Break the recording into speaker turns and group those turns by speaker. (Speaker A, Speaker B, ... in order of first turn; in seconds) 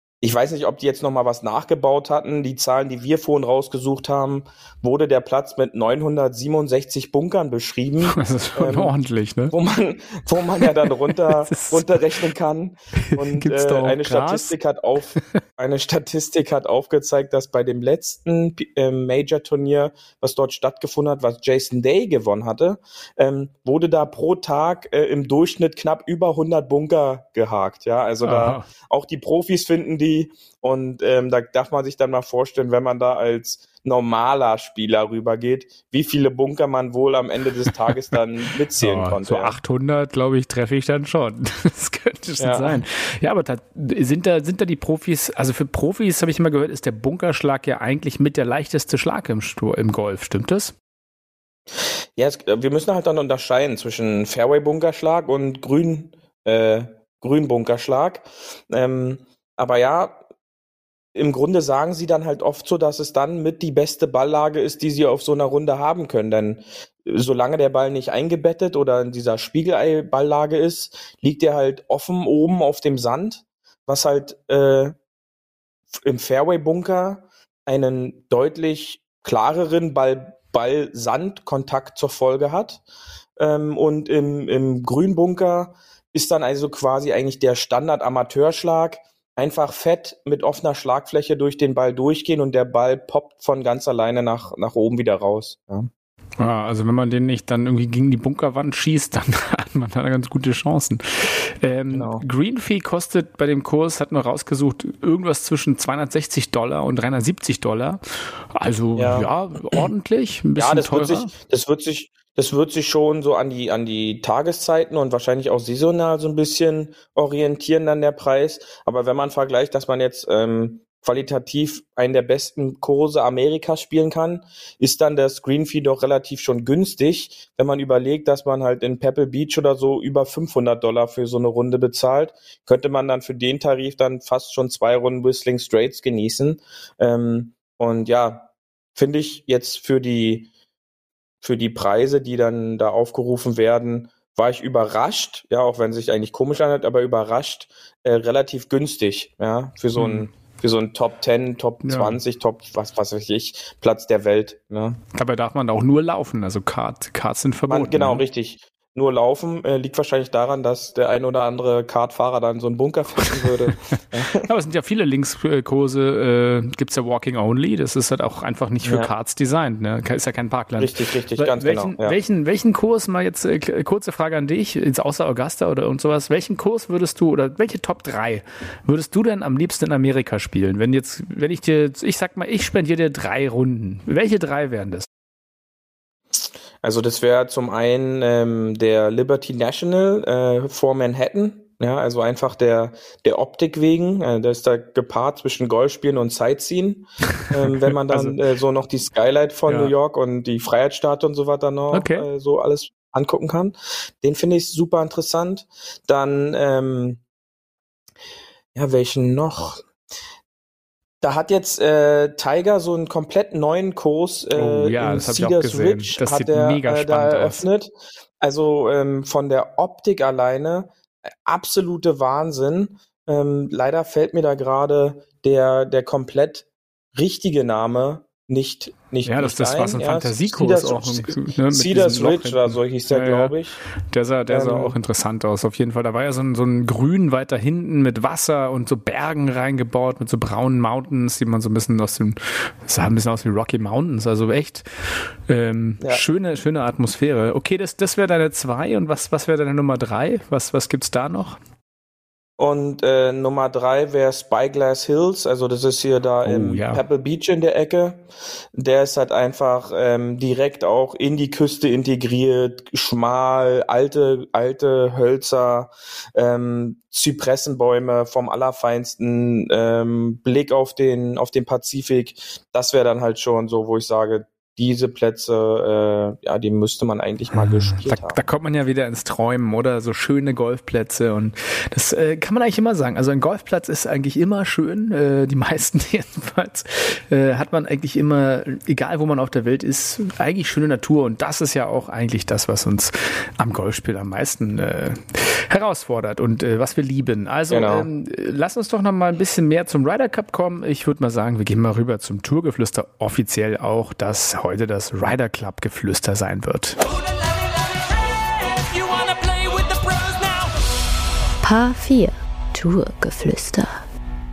Speaker A: 0.2-8.9, 9.5-39.6, 42.4-42.8, 51.8-60.2, 61.1-74.9, 75.9-82.8, 83.4-95.9, 101.9-102.2, 109.0-109.3, 110.6-140.5, 141.4-155.0, 157.7-164.5, 168.8-169.1, 170.8-172.2, 186.8-207.2, 208.7-209.8, 211.2-233.8, 234.5-234.9, 252.6-278.4, 297.7-298.1
Speaker B: 8.1-9.5, 11.2-12.0, 13.1-14.5, 28.2-28.6, 38.8-50.7, 96.4-108.0, 108.5-111.3, 149.9-150.3, 151.8-152.2, 155.1-158.2, 164.3-185.1, 197.4-198.4, 199.7-199.9, 201.9-202.3, 214.5-217.6, 229.2-233.6, 234.1-244.8, 245.5-251.6, 256.4-257.0, 277.5-307.0
Speaker C: 311.6-314.0